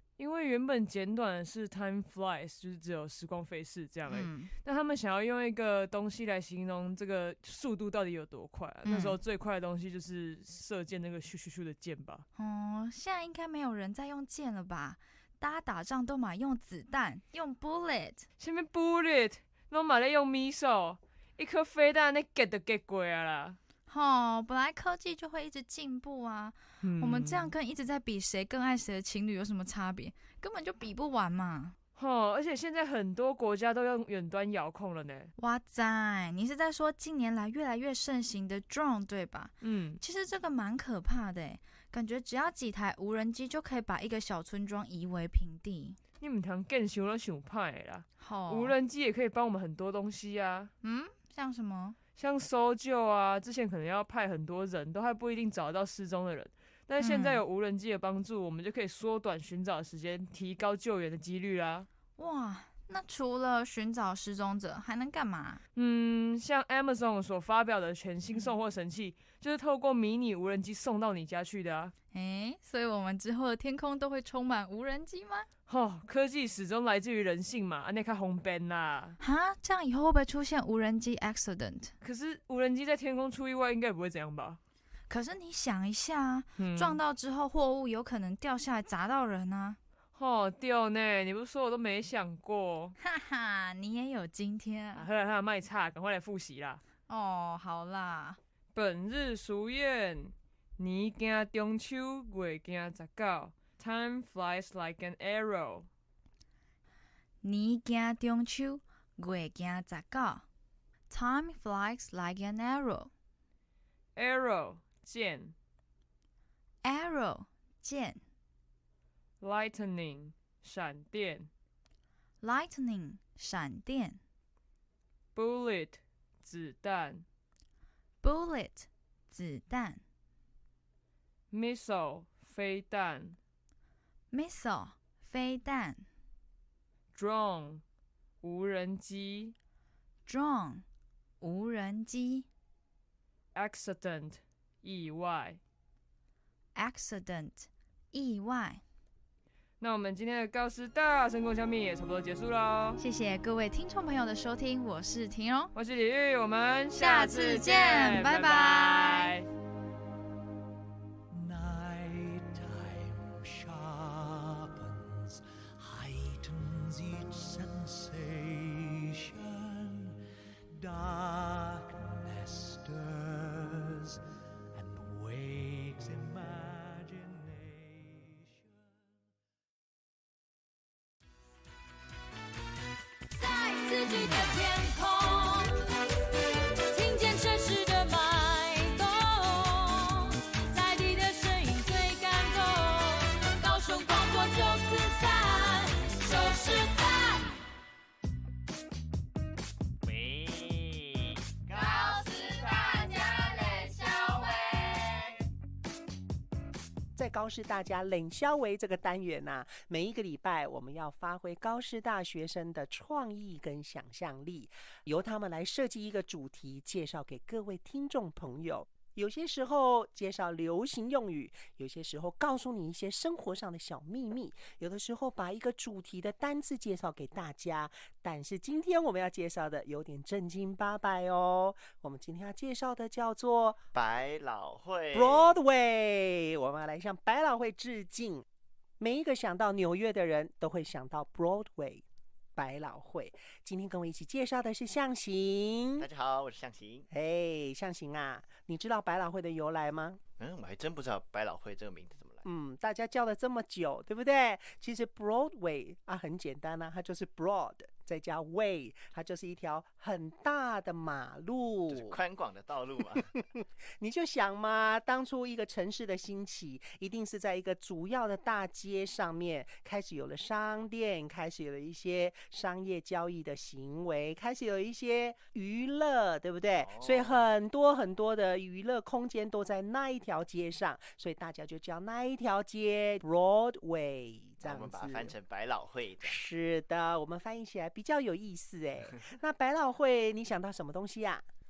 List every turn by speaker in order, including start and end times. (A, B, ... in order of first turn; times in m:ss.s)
0:00.2-0:12.2 A
0:04.0-0:04.5 B
0:08.8-0:09.2 B
0:12.3-0:18.3 B
0:18.4-0:23.6 A
0:23.9-0:31.7 B
0:26.8-0:27.5 A
0:32.0-0:35.3 A
0:35.4-0:46.0 B
0:39.6-0:40.0 A
0:46.2-0:50.7 A
0:48.2-0:48.8 B
0:50.8-0:52.0 B
0:52.2-1:01.9 A
0:57.0-0:57.4 B
1:02.2-1:05.6 B
1:05.7-1:11.9 A
1:12.1-1:15.5 B
1:15.7-1:19.2 A
1:19.2-1:21.9 B
1:22.0-1:24.6 A
1:25.1-1:29.8 B
1:26.6-1:27.0 A
1:30.1-1:33.0 A
1:33.0-1:35.1 B
1:34.9-1:36.8 A
1:37.1-1:38.4 B
1:38.7-1:45.9 A
1:47.4-1:50.4 B
1:51.1-1:53.1 B
1:54.2-1:55.5 A
1:56.8-1:58.2 B
1:59.4-2:01.5 A
2:02.4-2:04.2 B
2:05.3-2:07.2 A
2:08.2-2:10.0 B
2:11.5-2:13.4 A
2:14.3-2:16.0 B
2:17.1-2:17.8 A
2:18.4-2:19.5 A
2:20.2-2:20.8 B
2:21.4-2:22.5 B
2:23.5-2:25.6 A
2:26.7-2:28.8 B
2:29.8-2:33.0 A
2:33.0-2:35.7 B
2:35.7-2:39.5 A
2:36.9-2:39.3 B
2:41.3-2:50.1 C
2:50.8-2:54.2 C
2:54.8-2:58.4 C
3:03.3-3:05.8 D
3:06.9-3:17.4 D
3:20.0-3:25.2 E
3:27.1-3:53.8 F
3:53.9-3:55.6 E
3:55.1-3:58.4 F
3:59.0-4:02.0 F
4:02.6-4:06.1 F
4:06.0-4:07.1 E
4:07.1-4:10.2 F
4:10.4-4:12.4 E
4:12.4-4:22.2 F
4:21.9-4:23.3 E
4:23.5-4:45.4 F
4:36.8-4:37.5 E
4:44.6-4:46.4 E
4:46.2-4:51.4 F